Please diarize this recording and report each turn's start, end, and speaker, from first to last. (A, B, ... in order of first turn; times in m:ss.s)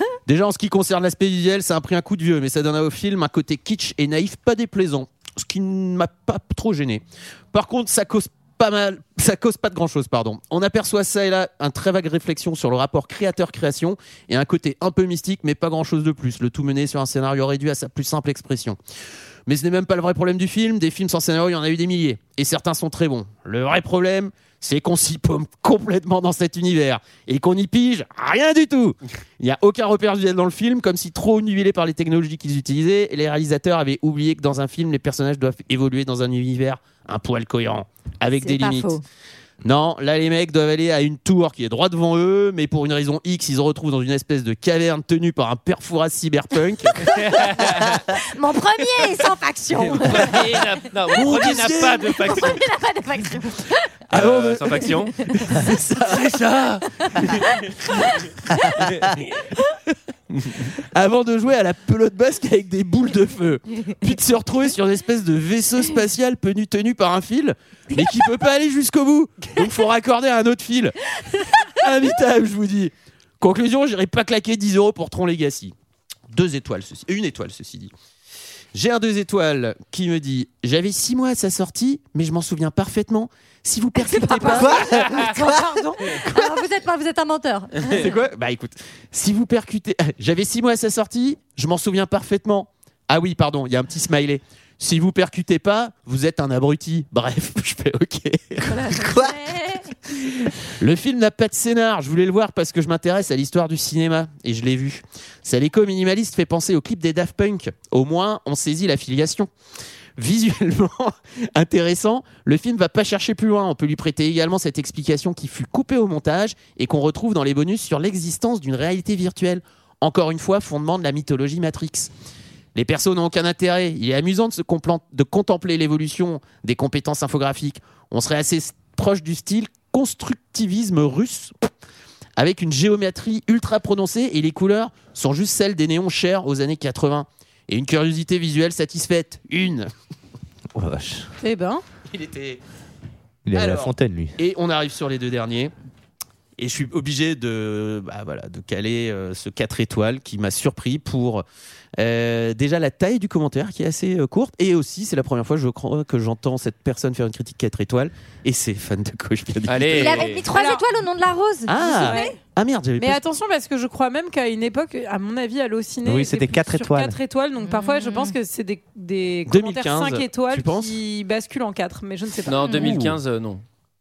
0:00.2-0:18.8 A
0:19.5-0:39.0 A
0:38.4-0:39.0 B
0:39.6-0:47.2 A
0:47.0-0:48.0 C
0:48.1-0:50.7 B
0:49.8-0:52.6 C
0:51.1-0:52.5 A
0:52.1-0:53.9 B
0:54.1-0:56.7 A
0:54.1-0:55.3 C
0:54.9-0:55.6 B
0:56.1-0:57.5 C
0:58.8-0:59.2 C
1:00.3-1:10.9 A
1:11.7-1:15.7 A
1:16.3-1:17.9 A
1:18.7-1:24.7 A
1:24.0-1:24.6 B
1:24.3-1:26.5 D
1:24.5-1:25.6 E
1:24.8-1:25.3 C
1:26.1-1:28.1 B
1:27.8-1:38.6 A
1:38.8-1:39.4 E
1:39.2-1:39.8 B
1:40.8-1:49.5 A
1:50.2-2:02.1 A
2:02.7-2:11.5 A
2:12.4-2:19.9 A
2:20.7-2:21.3 E
2:21.4-2:21.8 D
2:22.1-2:22.6 A
2:23.4-2:24.4 E
2:23.5-2:25.7 A
2:26.6-2:31.4 A
2:32.0-2:40.3 A
2:39.7-2:40.4 C
2:40.0-2:42.3 B
2:40.4-2:40.8 D
2:41.7-2:43.2 A
2:41.8-2:42.4 D
2:43.0-2:52.9 D
2:46.0-2:47.2 E
2:47.6-2:48.4 B
2:49.5-2:50.9 A
2:52.4-2:53.6 C
2:52.8-2:53.2 A